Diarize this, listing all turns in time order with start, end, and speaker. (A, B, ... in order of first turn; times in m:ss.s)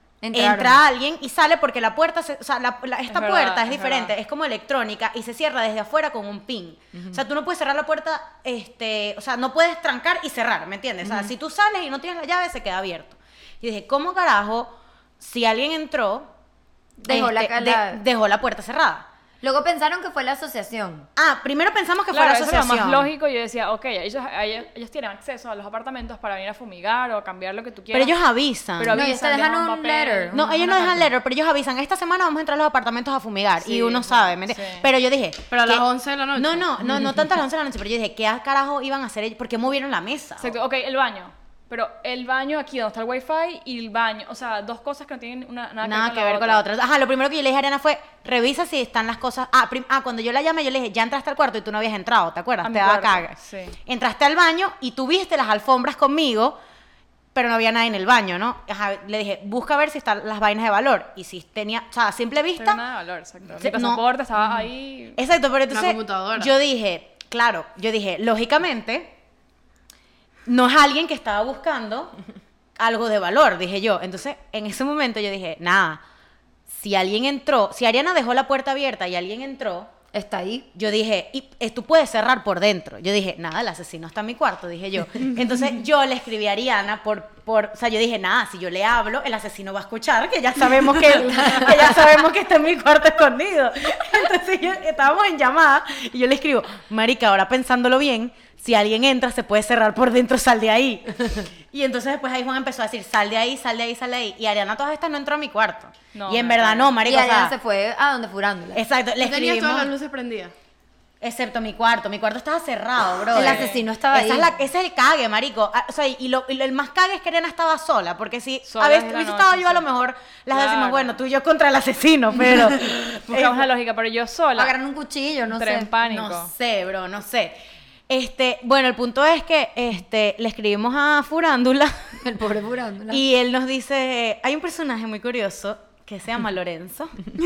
0:00.2-0:00.8 A
0:00.3-0:16.3 B
0:03.1-0:04.1 C
0:11.0-0:11.3 A
0:17.0-0:18.0 A
0:17.1-0:19.1 B
0:19.4-0:21.1 A
0:21.2-0:23.1 B
0:22.1-0:28.2 C
0:27.9-0:29.1 B
0:28.8-0:31.0 C
0:28.9-0:31.0 A
0:29.0-0:29.5 D
0:30.3-0:40.6 B
0:33.6-0:34.9 C
0:35.5-0:36.7 D
0:40.4-0:46.6 C
0:45.8-0:56.6 B
0:52.6-0:53.8 C
0:57.3-1:02.8 B
1:02.6-1:05.2 C
1:03.6-1:04.0 B
1:05.2-1:09.1 B
1:05.7-1:06.5 D
1:10.5-1:12.1 B
1:12.8-1:16.0 B
1:16.7-1:19.9 B
1:20.1-1:20.7 A
1:20.7-1:47.6 B
1:46.1-1:46.9 C
1:47.0-1:48.8 A
1:48.7-1:49.9 B
1:49.2-1:50.5 D
1:51.2-2:03.7 B
1:53.3-1:54.5 A
1:53.4-1:53.8 C
1:58.6-1:59.8 C
2:00.5-2:01.2 C
2:02.6-2:04.8 C
2:04.6-2:05.9 A
2:05.5-2:06.5 C
2:06.0-2:07.6 B
2:08.1-2:12.2 B
2:12.2-2:13.2 A
2:13.1-2:17.1 B